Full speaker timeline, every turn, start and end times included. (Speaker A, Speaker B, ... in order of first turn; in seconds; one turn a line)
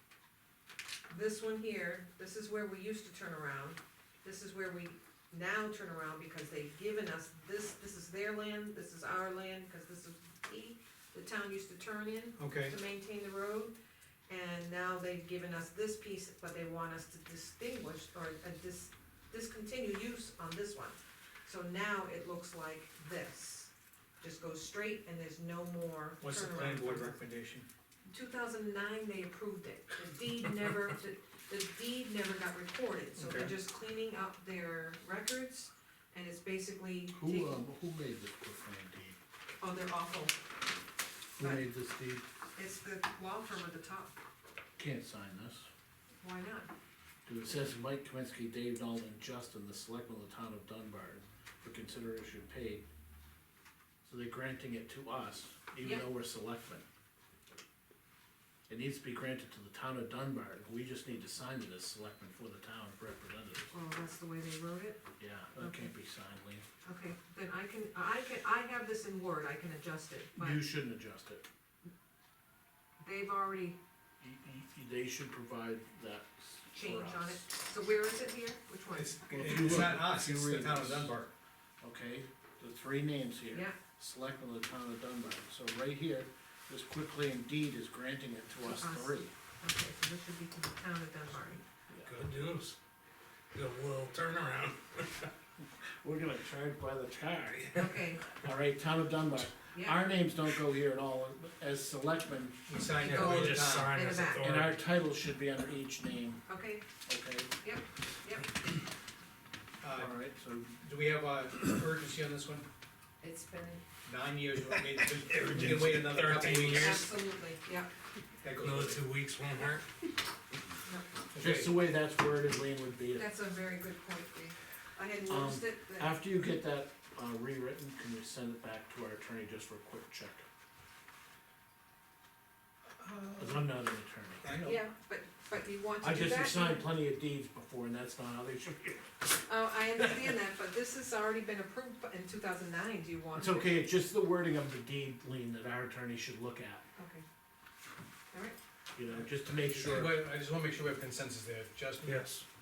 Speaker A: 1.1-13.7
Speaker B: 12.4-12.8
Speaker A: 14.3-27.2
Speaker B: 26.2-27.7
Speaker A: 28.1-37.6
Speaker B: 33.2-33.5
Speaker C: 37.1-39.2
Speaker A: 39.6-40.4
Speaker C: 41.4-42.2
Speaker A: 41.4-41.7
Speaker A: 42.6-44.1
Speaker C: 44.8-45.7
Speaker A: 46.2-46.7
Speaker C: 47.3-52.9
Speaker C: 54.0-56.9
Speaker C: 58.7-63.7
Speaker A: 63.7-65.0
Speaker C: 65.2-66.6
Speaker A: 65.6-65.9
Speaker A: 66.8-70.6
Speaker C: 70.4-71.5
Speaker A: 73.0-73.8
Speaker C: 74.2-77.4
Speaker A: 76.7-79.5
Speaker B: 79.0-81.3
Speaker C: 79.3-81.1
Speaker C: 81.8-89.3
Speaker A: 83.5-83.8
Speaker A: 88.6-91.6
Speaker D: 92.0-92.8
Speaker D: 93.5-95.3
Speaker C: 96.0-102.6
Speaker A: 97.7-98.3
Speaker A: 99.7-100.1
Speaker B: 102.7-104.0
Speaker D: 103.0-104.8
Speaker A: 103.0-104.5
Speaker C: 104.4-106.4
Speaker A: 106.5-106.8
Speaker C: 107.1-107.5
Speaker A: 107.6-108.5
Speaker B: 109.8-110.2
Speaker C: 110.0-110.8
Speaker B: 110.8-112.7
Speaker A: 113.2-113.8
Speaker B: 114.0-117.0
Speaker D: 115.3-117.1
Speaker A: 116.7-117.9
Speaker B: 118.4-119.1
Speaker D: 118.6-119.9
Speaker B: 121.3-121.8
Speaker C: 121.4-123.3
Speaker A: 123.2-126.2
Speaker C: 125.3-130.4
Speaker B: 133.0-133.7
Speaker C: 133.4-134.6
Speaker B: 134.4-134.8
Speaker A: 134.6-136.9
Speaker C: 136.0-139.2
Speaker A: 139.4-143.8
Speaker C: 143.3-146.8
Speaker A: 147.0-147.2
Speaker A: 148.3-148.6
Speaker C: 149.0-150.2
Speaker B: 149.7-152.2
Speaker D: 152.0-152.4